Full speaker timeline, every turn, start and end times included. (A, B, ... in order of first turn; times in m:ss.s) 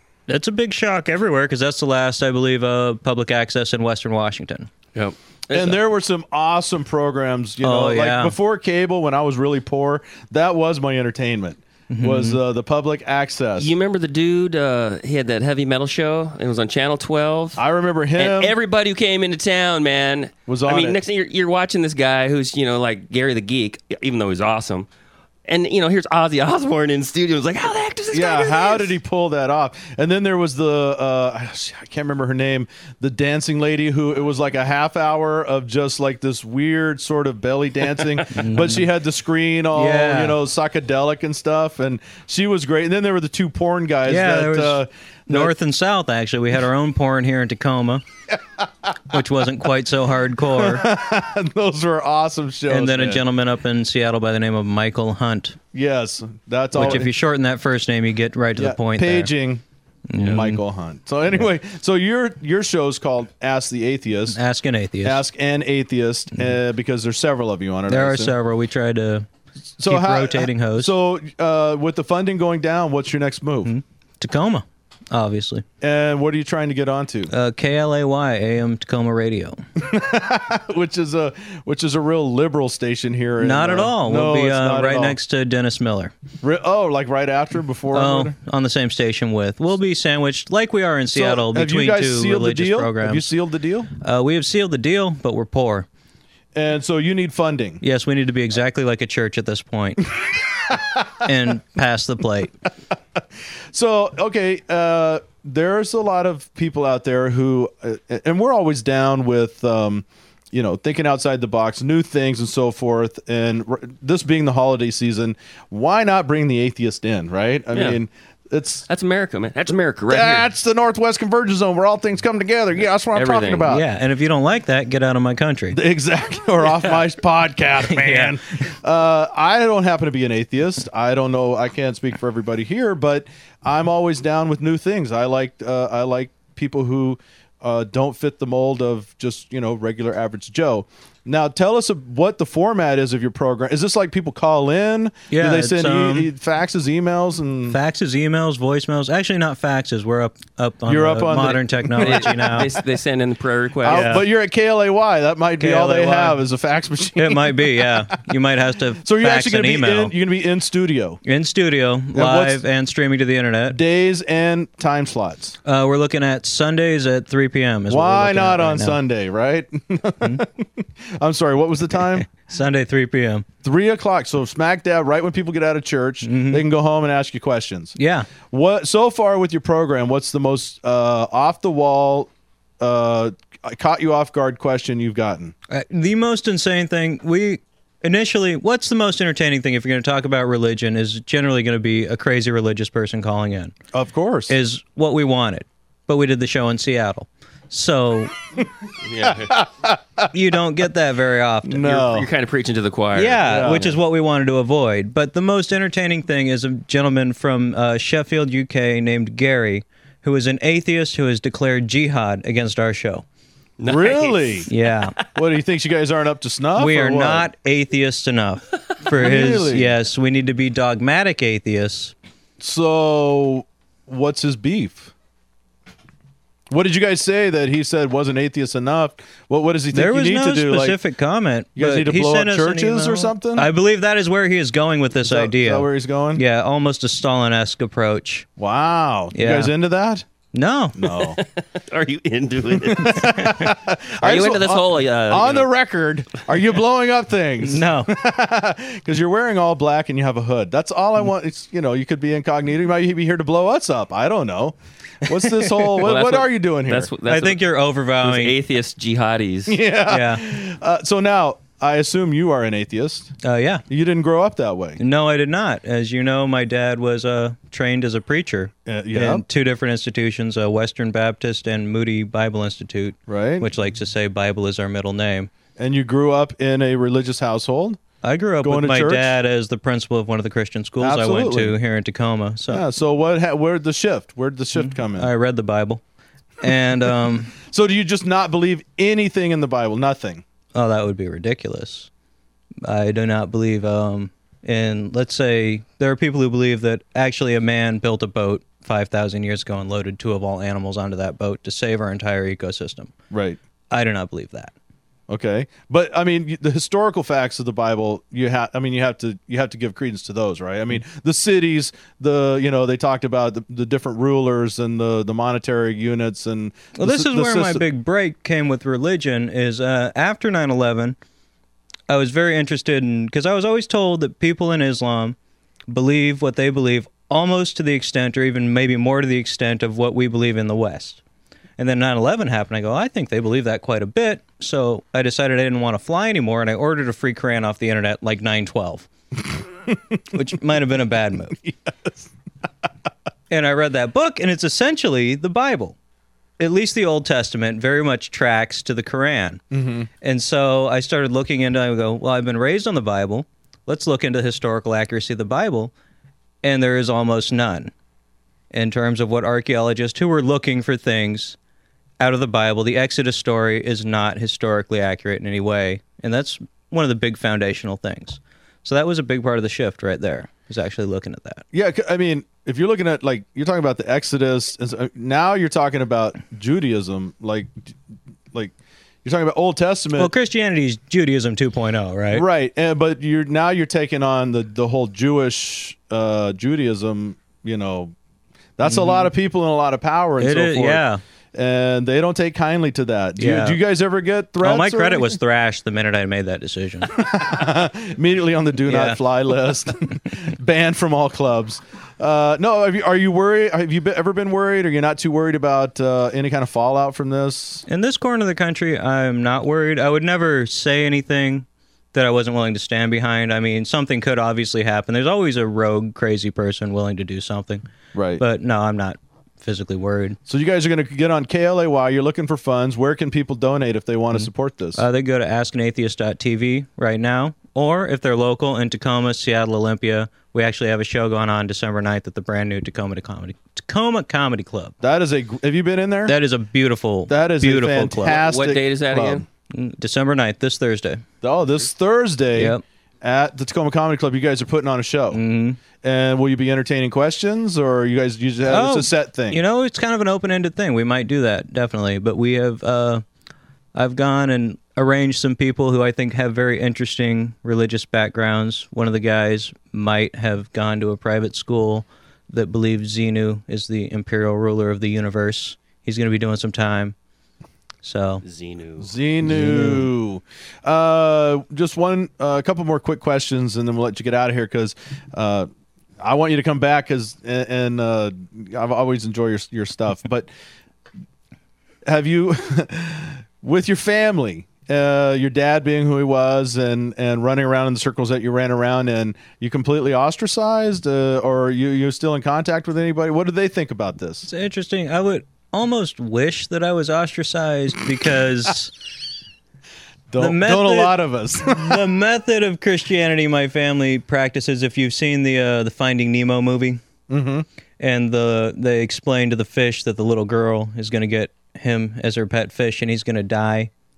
0:00.3-0:04.7 A
0:05.0-0:05.8 B
0:05.5-0:13.7 C
0:07.6-0:08.4 A
0:11.9-0:12.4 A
0:13.6-0:17.6 B
0:17.6-0:18.6 C
0:18.2-0:24.9 B
0:20.5-0:21.0 C
0:25.5-0:28.9 B
0:28.1-0:45.5 C
0:38.3-0:38.9 A
0:39.7-0:40.4 A
0:44.1-0:48.0 A
0:49.1-0:50.9 A
0:50.6-0:53.2 C
0:52.7-0:55.6 A
0:55.7-0:57.1 C
0:56.7-0:59.3 A
0:58.6-0:59.6 C
1:00.1-1:00.6 A
1:00.2-1:04.4 C
1:04.3-1:05.2 A
1:05.0-1:08.3 C
1:07.9-1:09.3 A
1:09.8-1:13.7 C
1:09.9-1:10.9 A
1:13.6-1:15.6 A
1:15.8-1:17.3 C
1:17.3-1:19.6 A
1:19.8-1:25.2 C
1:23.4-1:26.1 A
1:26.4-1:28.3 C
1:27.9-1:33.3 A
1:31.1-1:33.9 C
1:34.0-1:35.9 A
1:36.6-1:37.8 C
1:37.8-1:40.1 A
1:41.2-1:42.5 A
1:43.7-1:58.9 C
1:57.7-1:58.0 B
1:58.9-2:00.5 B
2:00.1-2:03.8 C
2:03.1-2:03.7 B
2:03.7-2:05.8 A
2:05.7-2:27.8 C
2:07.9-2:08.4 A
2:25.3-2:26.3 A
2:27.7-2:32.7 A
2:30.9-2:32.6 C
2:32.0-2:34.2 B
2:33.8-2:37.9 C
2:33.9-2:34.3 A
2:35.6-2:36.4 A
2:37.2-2:40.1 A
2:39.0-2:41.2 C
2:41.2-2:43.8 A
2:42.1-2:42.6 C
2:43.7-2:45.6 C
2:45.6-2:49.0 A
2:47.9-2:52.3 C
2:52.3-2:53.5 A
2:53.6-3:05.5 C
2:56.2-2:56.7 A
2:58.0-2:58.3 A
3:05.7-3:13.8 A
3:13.9-3:14.6 C
3:14.5-3:18.3 A
3:19.0-3:19.6 B
3:19.2-3:20.2 C
3:20.3-3:22.0 A
3:21.6-3:22.3 C
3:21.9-3:24.0 B
3:23.2-3:33.2 A
3:23.4-3:23.9 C
3:33.8-3:34.7 B
3:33.9-3:34.7 C
3:34.7-3:35.2 A
3:35.3-3:37.5 C
3:36.8-3:42.1 A
3:39.1-3:39.9 C
3:42.6-3:45.1 C
3:46.7-3:51.0 C
3:49.9-3:58.5 A
3:51.8-3:53.7 C
3:55.2-3:56.4 C
3:58.6-4:00.3 C
3:59.3-3:59.7 A
4:00.5-4:01.0 A
4:01.0-4:01.4 C
4:01.4-4:05.7 B
4:02.8-4:17.1 C
4:07.6-4:08.1 A
4:15.6-4:15.9 A
4:16.0-4:17.7 B
4:17.2-4:18.6 A
4:18.2-4:19.8 B
4:19.7-4:23.3 C
4:20.1-4:20.4 A
4:23.4-4:23.8 A
4:23.9-4:25.0 C
4:25.0-4:35.5 A
4:28.9-4:29.4 C
4:33.3-4:33.7 C
4:35.8-4:38.0 C
4:38.2-4:42.9 A
4:38.6-4:39.3 C
4:41.0-4:41.8 C
4:42.7-4:45.3 C
4:44.8-4:46.0 A
4:46.6-4:47.6 A
4:47.6-4:50.4 C
4:50.7-4:52.1 A
4:52.8-5:03.1 A
5:03.3-5:03.6 C
5:03.9-5:04.7 A
5:05.3-5:17.8 C
5:17.0-5:21.2 A
5:22.1-5:25.4 A
5:25.9-5:31.2 A
5:31.8-5:39.1 A
5:40.3-5:41.6 A
5:41.6-5:42.3 C
5:43.5-5:46.0 A
5:46.6-5:49.6 A
5:49.7-5:50.1 C
5:50.2-5:55.9 A
5:56.6-5:57.9 A
5:58.7-6:01.6 A
6:02.2-6:11.6 A
6:11.7-6:17.7 C
6:18.5-6:20.3 C
6:20.2-6:22.5 A
6:22.3-6:28.1 C
6:28.8-6:35.4 C
6:28.8-6:29.3 A
6:30.4-6:31.2 A
6:33.4-6:33.8 A
6:34.6-6:37.1 A
6:37.1-6:47.8 C
6:38.8-6:39.2 A
6:47.9-6:57.9 A
6:58.1-6:58.4 C
6:58.4-7:00.4 A
7:00.5-7:05.0 C
7:04.3-7:15.0 A
7:15.0-7:16.4 C
7:16.3-7:18.4 A
7:17.3-7:19.4 C
7:18.3-7:19.4 B
7:19.7-7:21.2 A
7:21.4-7:25.4 C
7:22.6-7:22.8 A
7:25.3-7:25.8 A
7:26.0-7:29.6 C
7:28.7-7:33.2 A
7:33.9-7:47.2 A
7:48.0-7:48.4 A
7:48.4-7:49.1 B
7:49.0-7:55.7 C
7:49.5-7:50.1 A
7:56.2-8:00.5 C
8:02.1-8:14.5 C
8:14.5-8:18.9 A
8:20.3-8:22.0 C
8:20.4-8:27.0 A
8:27.3-8:27.7 C
8:28.0-8:33.9 A